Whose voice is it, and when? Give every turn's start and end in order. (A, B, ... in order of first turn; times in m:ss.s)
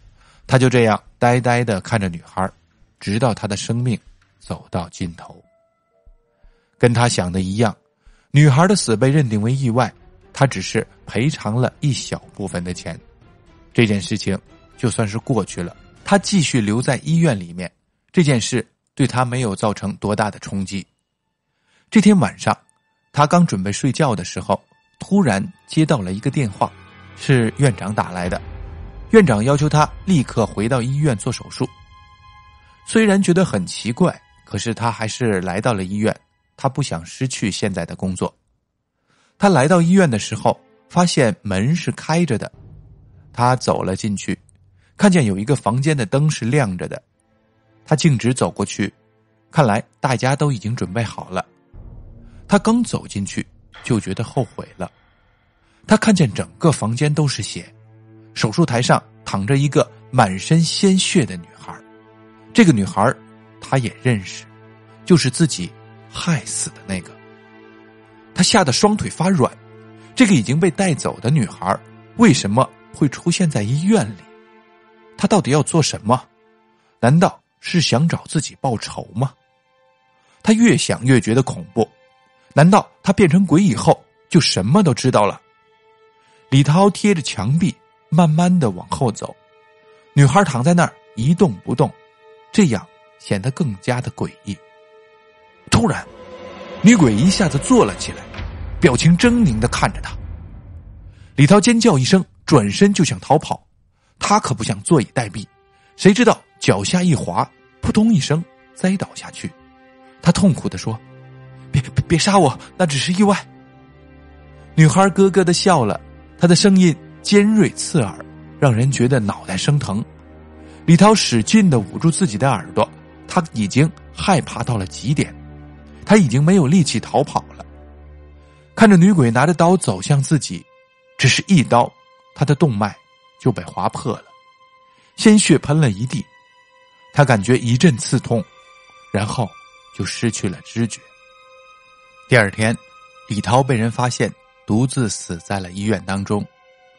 0:00.5-0:05.4 A
0:06.8-0:07.8 A
0:08.3-0:13.0 A
0:13.7-0:20.9 A
0:21.9-0:22.6 A
0:23.1-0:28.4 A
0:29.1-0:31.7 A
0:32.9-0:38.4 A
0:39.4-0:42.5 A
0:43.3-0:44.4 A
0:45.0-0:47.0 A
0:47.9-0:49.0 A
0:49.5-0:51.5 A
0:52.5-0:54.9 A
0:55.9-0:57.7 A
0:58.4-1:01.8 A
1:02.5-1:04.5 A
1:05.1-1:07.2 A
1:08.4-1:09.6 A
1:10.2-1:14.3 A
1:15.2-1:16.3 A
1:17.0-1:19.4 A
1:20.4-1:21.9 A
1:22.6-1:25.4 A
1:26.5-1:29.4 A
1:30.2-1:32.0 A
1:32.5-1:34.6 A
1:35.7-1:36.1 A
1:36.8-1:38.3 A
1:38.8-1:40.2 A
1:41.4-1:43.6 A
1:44.2-1:49.6 A
1:50.2-1:51.0 A
1:51.7-1:53.5 A
1:54.8-2:00.1 A
2:00.9-2:05.4 A
2:06.0-2:07.7 A
2:08.8-2:10.7 A
2:11.2-2:14.3 A
2:15.2-2:16.3 A
2:17.1-2:18.5 A
2:19.1-2:21.1 A
2:22.3-2:26.5 A